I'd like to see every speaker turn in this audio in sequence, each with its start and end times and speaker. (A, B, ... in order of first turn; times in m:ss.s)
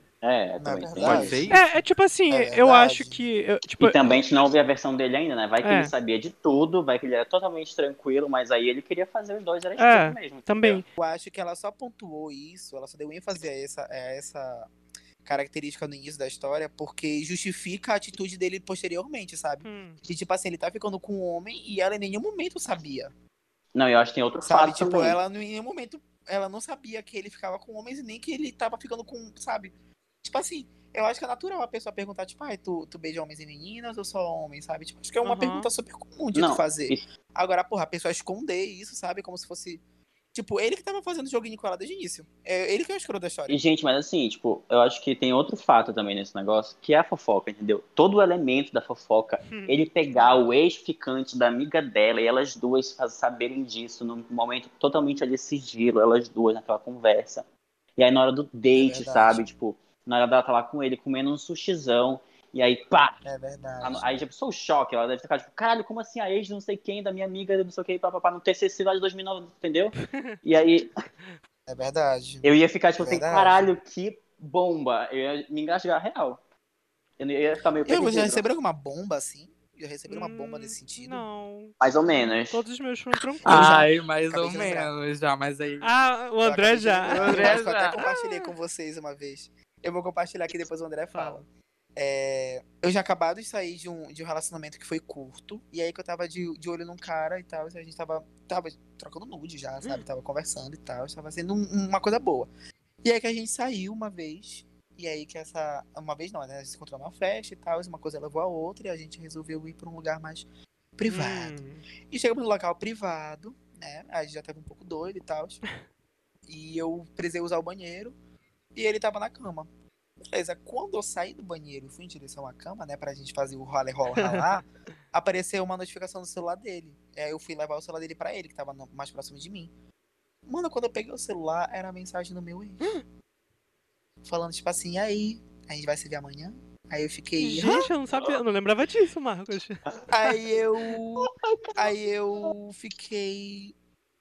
0:00.2-0:01.4 A
0:00.6-0:03.2 B
0:01.0-0:01.6 C
0:01.5-0:04.0 D
0:03.8-0:10.8 A
0:05.6-0:05.9 D
0:09.8-0:10.8 D
0:11.0-0:14.7 B
0:15.2-0:23.1 B
0:19.6-0:20.0 D
0:23.7-0:25.2 A
0:24.4-0:39.8 B
0:35.2-0:35.7 D
0:36.3-0:37.0 A
0:40.3-0:43.6 B
0:43.5-0:57.4 A
0:49.5-0:49.9 D
0:58.0-1:03.2 A
0:58.7-0:59.4 B
1:03.2-1:04.2 B
1:03.8-1:10.9 A
1:10.0-1:10.4 D
1:11.7-1:13.7 B
1:12.4-1:16.4 A
1:17.2-1:18.4 A
1:17.8-1:21.2 B
1:20.1-1:21.7 D
1:21.8-1:22.6 A
1:22.5-1:23.8 D
1:23.4-1:24.9 B
1:23.4-1:25.9 C
1:25.8-1:28.5 D
1:26.4-1:31.4 B
1:27.2-1:28.0 C
1:31.1-1:31.4 D
1:32.0-1:42.5 B
1:43.0-1:50.4 B
1:51.0-1:55.6 B
1:51.1-1:51.8 D
1:56.5-1:58.1 B
1:58.7-1:59.7 B
2:00.3-2:09.7 B
2:04.2-2:04.6 D
2:10.4-2:13.0 B
2:14.2-2:17.9 B
2:17.4-2:19.8 D
2:20.1-2:23.7 B
2:21.2-2:21.8 A